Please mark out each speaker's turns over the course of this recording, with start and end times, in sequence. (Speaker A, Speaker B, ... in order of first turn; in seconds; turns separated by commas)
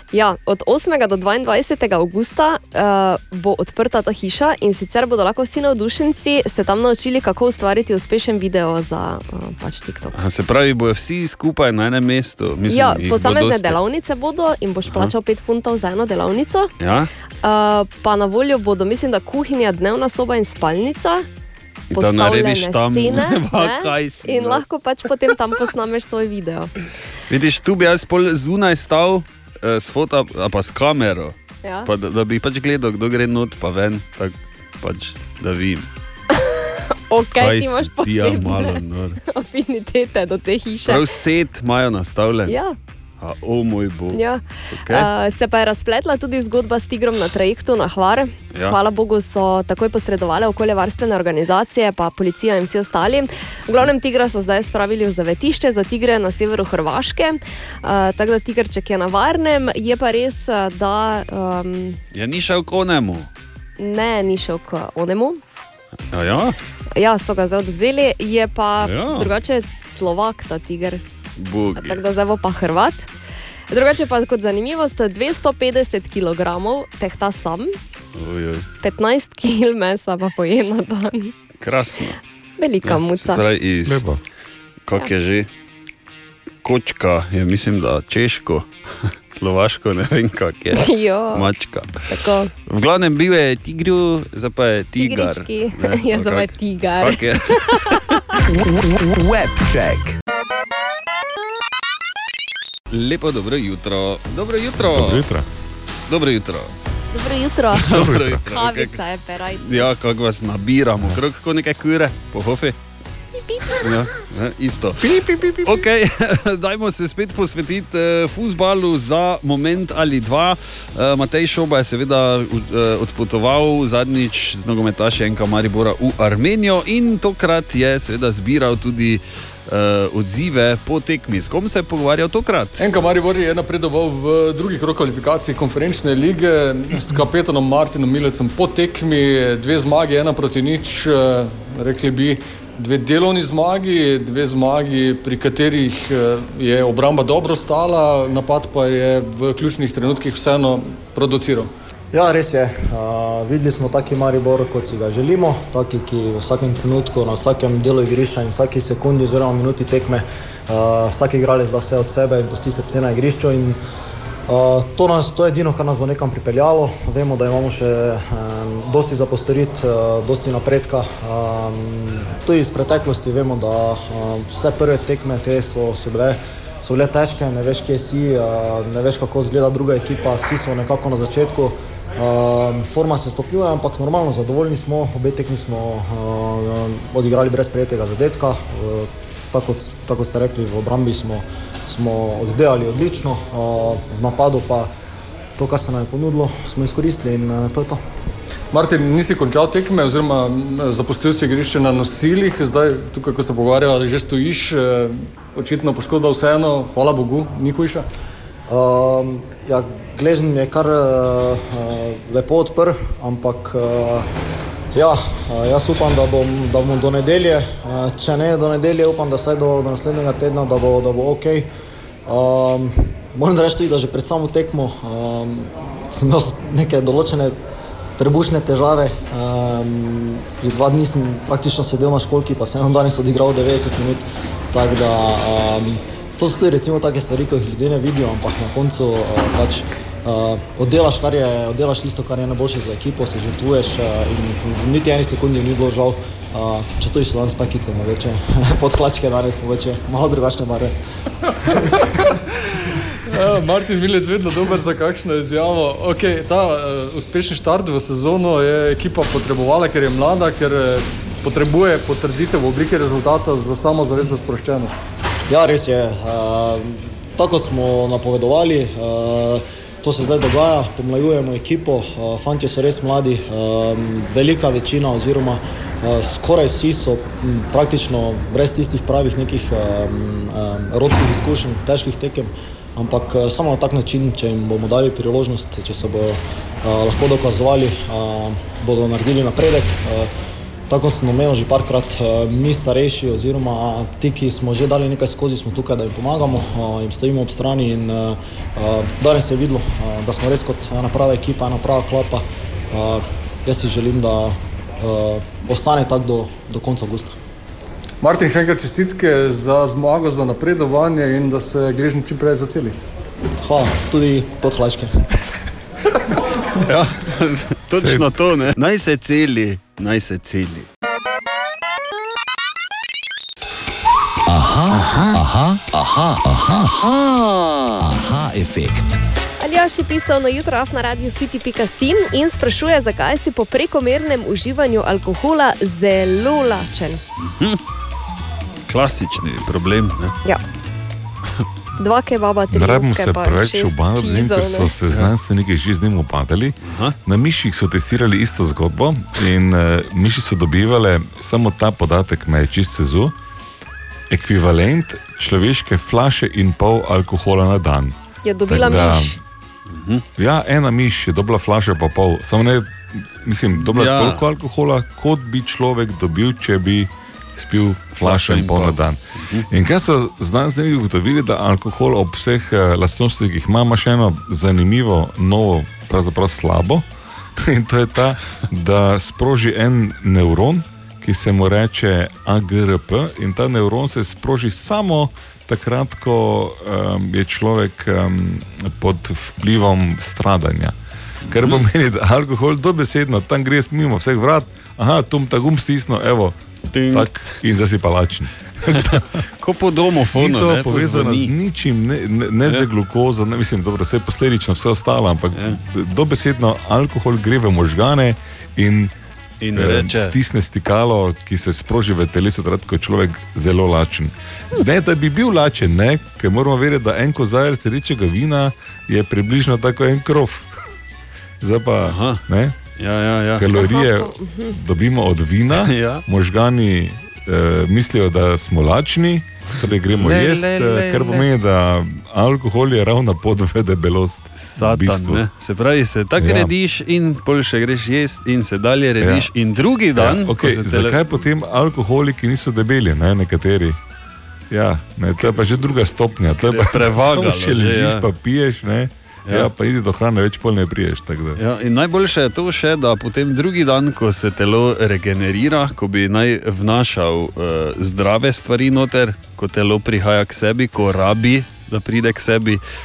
Speaker A: 0.1-10.2, Speaker B: 10.1-13.8, Speaker A: 12.7-16.7, Speaker B: 14.9-15.1, Speaker B: 16.8-17.1, Speaker A: 17.4-21.2, Speaker B: 21.9-24.6, Speaker A: 21.9-26.7, Speaker B: 27.3-31.4, Speaker A: 31.6-31.9, Speaker B: 31.9-35.9, Speaker A: 37.1-41.0, Speaker B: 37.4-39.2, Speaker B: 40.9-42.5, Speaker A: 42.5-42.8, Speaker B: 43.2-45.1, Speaker A: 44.1-62.0, Speaker B: 62.1-63.3, Speaker A: 63.8-65.4, Speaker B: 66.1-66.5, Speaker A: 67.0-71.0, Speaker B: 68.8-69.3, Speaker B: 71.4-72.0, Speaker A: 71.8-73.1, Speaker A: 73.7-77.8, Speaker B: 78.2-78.7, Speaker A: 78.8-81.3, Speaker B: 81.6-82.2, Speaker A: 82.6-83.5, Speaker B: 82.8-84.0, Speaker C: 83.9-84.2, Speaker B: 84.9-85.5, Speaker B: 86.6-92.0, Speaker A: 90.8-91.5, Speaker A: 92.1-92.5, Speaker B: 92.7-98.2, Speaker A: 95.0-98.1, Speaker D: 98.6-100.1, Speaker B: 102.9-105.2, Speaker C: 104.8-105.5, Speaker B: 106.1-106.7, Speaker A: 107.1-107.9, Speaker B: 107.8-109.0, Speaker C: 107.9-108.4, Speaker A: 108.5-109.9, Speaker B: 109.6-112.8, Speaker A: 113.3-113.9, Speaker B: 113.8-115.1, Speaker A: 115.1-115.8, Speaker B: 115.7-132.8, Speaker E: 132.8-151.7, Speaker F: 152.1-163.8, Speaker F: 164.5-194.9, Speaker F: 195.6-198.0, Speaker E: 198.7-208.1, Speaker F: 208.7-214.3, Speaker F: 214.9-221.7, Speaker F: 222.3-227.5, Speaker F: 228.2-250.9, Speaker E: 253.3-265.0, Speaker F: 265.5-290.3, Speaker F: 290.9-307.3, Speaker E: 308.2-313.0, Speaker F: 313.6-315.1, Speaker B: 316.9-320.9, Speaker C: 318.0-318.3, Speaker D: 324.5-329.2, Speaker A: 329.6-337.2, Speaker B: 337.4-337.8, Speaker B: 338.9-340.4, Speaker A: 342.0-344.9, Speaker C: 342.7-353.3, Speaker B: 346.8-347.1, Speaker C: 354.3-358.1, Speaker A: 358.4-359.4, Speaker C: 358.7-359.4, Speaker B: 359.9-360.2, Speaker C: 360.4-369.2, Speaker B: 363.8-364.4, Speaker B: 368.2-369.7, Speaker C: 369.7-377.1, Speaker C: 377.6-391.0, Speaker B: 391.4-391.9, Speaker C: 391.5-396.6, Speaker B: 396.9-397.3, Speaker C: 397.1-399.2, Speaker B: 398.9-401.5, Speaker C: 400.3-409.1, Speaker B: 405.5-405.8, Speaker B: 409.6-410.4, Speaker C: 409.8-420.7, Speaker C: 421.6-422.8, Speaker B: 422.0-422.4, Speaker B: 423.0-423.7, Speaker C: 423.6-435.4, Speaker A: 423.8-424.8, Speaker B: 425.9-426.2, Speaker B: 430.1-431.4, Speaker B: 434.6-441.2, Speaker C: 436.4-436.7, Speaker C: 439.2-439.5, Speaker C: 440.2-444.0, Speaker C: 444.7-451.6, Speaker B: 446.6-448.3, Speaker B: 451.6-462.8